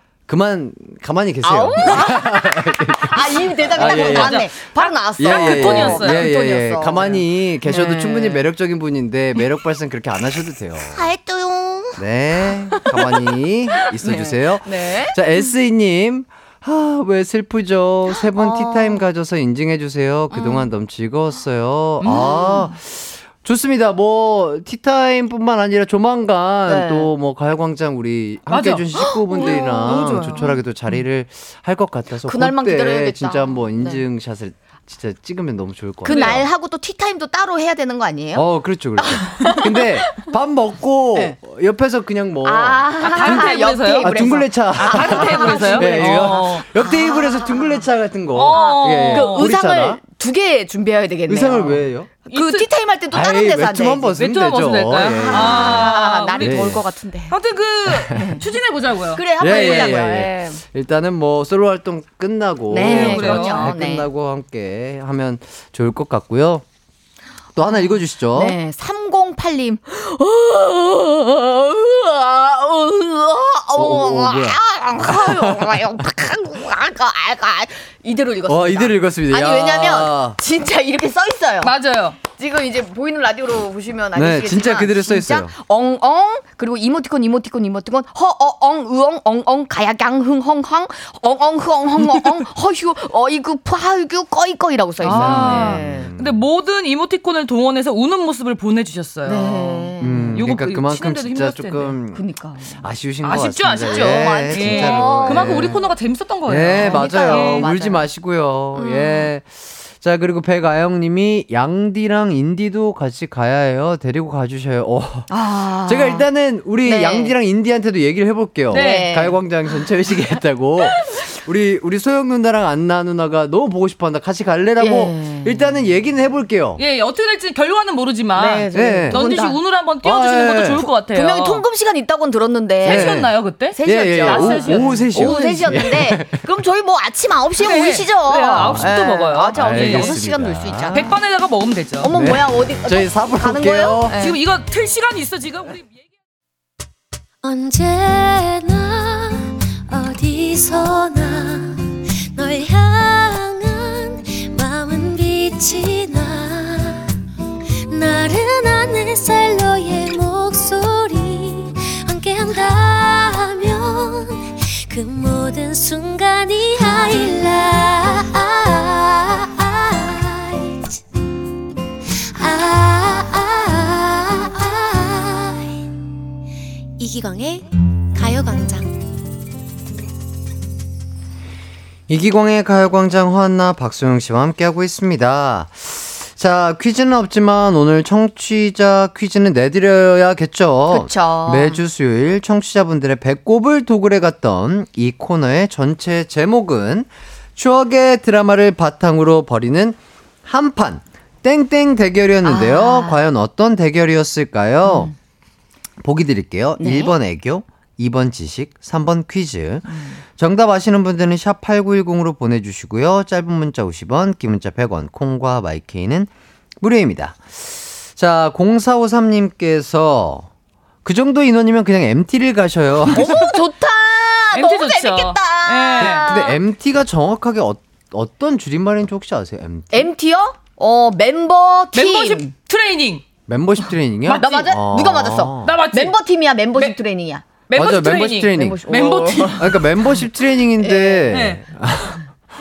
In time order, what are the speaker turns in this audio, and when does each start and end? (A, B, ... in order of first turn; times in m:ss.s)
0:00.3-0:04.5 A
0:01.4-0:08.4 B
0:03.9-0:04.7 C
0:05.2-0:11.1 A
0:05.2-0:06.3 C
0:10.8-0:12.0 B
0:12.0-0:36.5 A
0:12.8-0:13.1 B
0:13.8-0:15.4 B
0:18.4-0:19.0 B
0:20.3-0:20.6 B
0:22.0-0:22.7 B
0:22.1-0:22.4 C
0:26.7-0:27.1 B
0:28.5-0:30.5 C
0:29.0-0:30.5 B
0:32.2-0:34.0 B
0:36.0-0:36.4 C
0:36.0-0:38.4 B
0:38.3-0:50.0 A
0:39.0-0:39.9 B
0:42.4-0:47.8 B
0:43.0-0:46.7 C
0:48.3-0:49.6 C
0:48.6-0:54.2 B
0:51.2-0:52.1 A
0:52.2-0:52.7 C
0:53.1-0:56.8 A
0:54.2-0:56.7 C
0:55.1-0:57.4 B
0:57.3-1:00.0 C
0:57.9-0:58.4 A
0:58.1-0:58.5 B
0:59.1-1:00.6 B
0:59.4-1:06.6 A
1:02.7-1:04.1 B
1:02.7-1:03.7 C
1:07.5-1:08.6 A
1:08.3-1:36.1 B
1:13.7-1:15.9 A
1:18.5-1:20.4 A
1:21.6-1:22.2 C
1:24.1-1:25.6 A
1:35.0-1:42.0 C
1:35.0-1:36.4 A
1:39.2-1:40.5 B
1:40.0-1:42.2 A
1:42.1-1:42.8 B
1:42.8-1:45.8 A
1:43.2-1:47.7 C
1:43.8-1:45.8 B
1:46.5-2:06.8 A
1:46.7-1:48.1 B
1:48.7-1:49.3 B
1:55.3-1:56.2 B
1:56.8-1:57.3 B
1:58.7-1:59.2 C
1:58.7-1:59.4 B
2:04.8-2:05.6 B
2:06.8-2:11.6 C
2:08.3-2:09.6 B
2:08.7-2:09.2 A
2:10.0-2:10.8 A
2:10.8-2:13.2 B
2:12.8-2:15.4 C
2:12.8-2:13.3 A
2:13.7-2:21.2 B
2:13.8-2:16.4 A
2:17.5-2:20.2 C
2:18.6-2:21.0 A
2:20.9-2:22.1 C
2:22.0-2:24.4 B
2:22.0-2:24.2 A
2:24.1-2:26.0 C
2:27.4-2:37.0 D
2:37.9-2:51.0 D
2:52.3-2:55.7 D
2:57.0-2:59.0 D
3:02.1-3:25.1 A
3:10.9-3:11.8 B
3:22.4-3:23.2 B
3:24.8-3:25.1 B
3:26.0-3:36.3 A
3:26.8-3:27.1 B
3:36.8-3:40.5 A
3:41.0-3:43.4 A
3:43.1-3:46.6 B
3:43.2-3:43.4 C
3:44.5-3:46.3 C
3:46.0-3:50.1 A
3:49.9-3:52.5 B
3:51.9-3:53.3 C
3:53.5-3:55.8 A
3:54.2-3:54.8 C
3:54.4-3:57.4 B
3:55.6-3:56.2 C
3:57.7-3:59.9 C
3:57.7-4:02.2 A
3:58.4-3:59.6 B
4:00.8-4:01.4 B
4:01.3-4:01.6 C